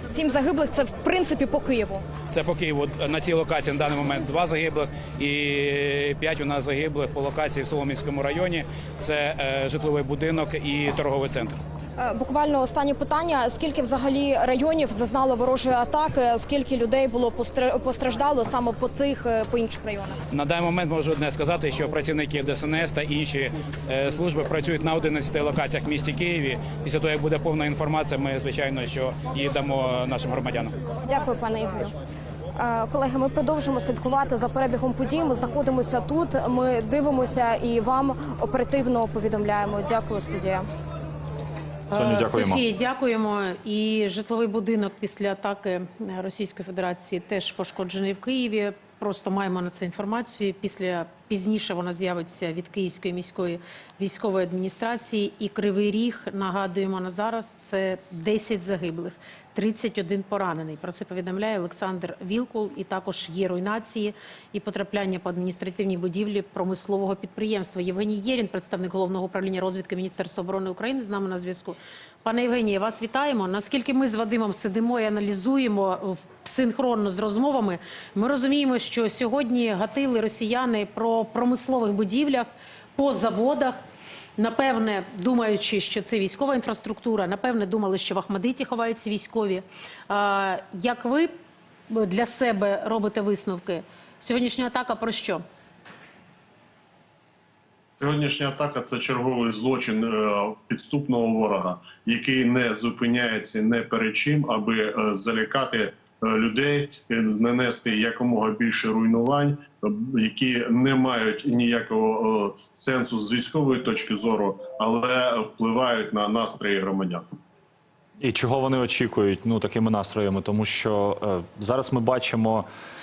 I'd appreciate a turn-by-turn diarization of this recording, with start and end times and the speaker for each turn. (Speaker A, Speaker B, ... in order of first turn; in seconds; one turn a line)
Speaker A: 0.1-2.0
Speaker B: 2.3-11.6
Speaker A: 12.0-20.2
Speaker B: 20.3-30.8
Speaker A: 31.0-31.9
Speaker A: 32.5-40.6
Speaker C: 41.9-83.8
Speaker D: 41.9-42.6
Speaker C: 84.4-91.3
Speaker C: 91.9-95.4
Speaker E: 98.0-117.2
Speaker D: 118.2-122.7